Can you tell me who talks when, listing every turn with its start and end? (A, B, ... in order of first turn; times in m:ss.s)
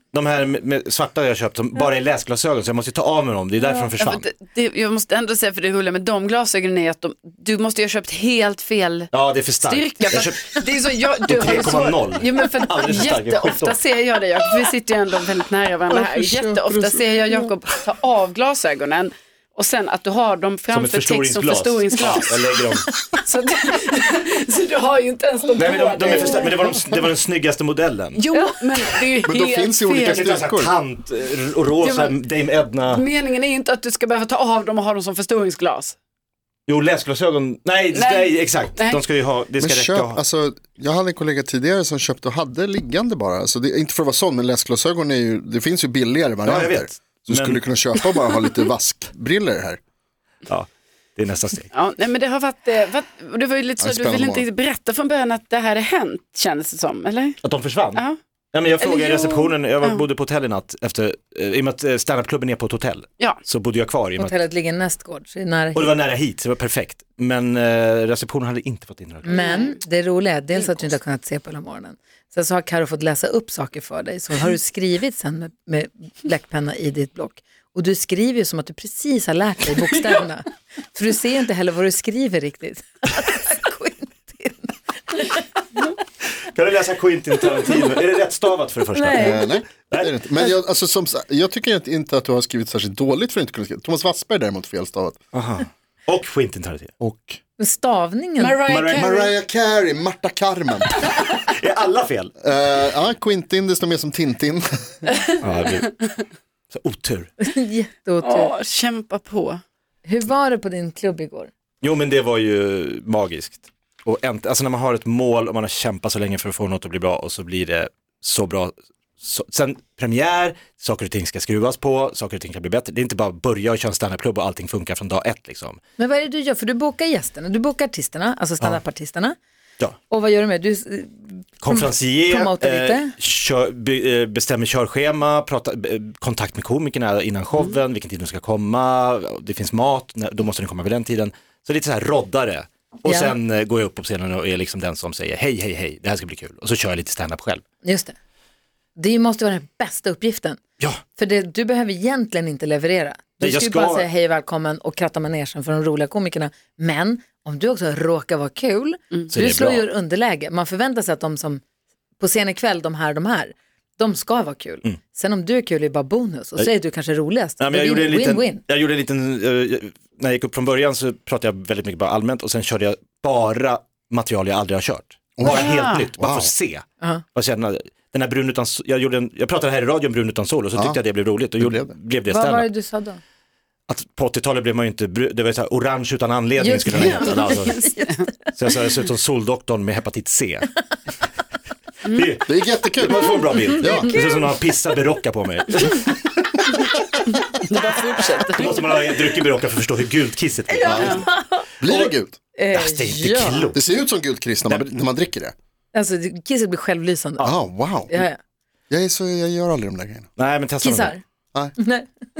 0:00.1-0:04.3 A
0:03.8-0:22.6 B
0:09.1-0:10.6 A
0:11.2-0:13.8 A
0:15.9-0:17.0 C
0:20.7-0:22.9 A
0:23.1-0:27.0 B
0:25.6-0:28.2 A
0:28.1-0:30.4 B
0:28.3-0:28.9 D
0:29.2-0:30.8 C
0:30.0-0:33.0 A
0:31.8-0:32.2 B
0:32.8-0:35.9 B
0:36.7-0:40.2 A
0:37.9-0:39.0 B
0:39.6-0:49.8 C
0:46.4-0:47.6 A
0:50.5-0:51.7 A
0:51.7-0:57.4 B
0:53.8-0:54.4 C
0:57.4-1:04.3 A
0:58.8-1:00.0 B
1:04.2-1:05.9 D
1:05.7-1:09.4 A
1:09.2-1:09.7 B
1:09.2-1:25.4 D
1:26.5-1:30.2 A
1:28.9-1:29.5 D
1:29.1-1:35.2 C
1:35.3-1:36.9 A
1:37.0-1:37.4 C
1:37.6-1:38.6 D
1:38.4-1:39.3 B
1:38.7-1:39.0 A
1:38.9-1:40.9 C
1:41.0-1:42.3 A
1:42.4-1:44.6 C
1:45.4-1:46.1 A
1:46.7-1:47.3 A
1:47.4-1:48.5 D
1:48.2-1:49.6 B
1:50.0-1:51.5 D
1:51.8-2:05.8 A
2:06.0-2:09.4 D
2:10.1-2:13.1 D
2:11.6-2:27.6 A
2:23.0-2:23.3 D
2:27.8-2:28.1 D
2:29.0-2:30.6 D
2:31.1-2:41.6 D
2:33.4-2:34.1 A
2:39.3-2:39.8 A
2:42.2-2:48.6 D
2:47.6-3:02.7 A
2:55.4-2:56.5 C
2:55.4-2:56.1 B
3:00.7-3:01.0 C
3:01.6-3:01.9 C
3:02.3-3:03.2 D
3:03.9-3:07.9 A
3:06.6-3:08.3 D
3:06.9-3:07.2 C
3:07.2-3:07.9 B
3:08.5-3:10.7 A
3:12.1-3:16.3 A
3:12.4-3:14.1 C
3:17.4-3:18.9 B
3:18.4-3:21.3 A
3:20.7-3:21.7 D
3:20.8-3:21.3 C
3:20.9-3:21.2 B
3:21.8-3:22.4 C
3:21.8-3:22.1 A
3:22.6-3:23.7 D
3:22.7-3:23.8 A
3:23.7-3:25.5 C
3:25.9-3:27.5 D
3:27.4-3:28.2 C
3:28.1-3:28.4 D
3:28.9-3:30.3 C
3:30.4-3:31.2 A
3:30.8-3:31.2 D
3:31.8-3:32.1 D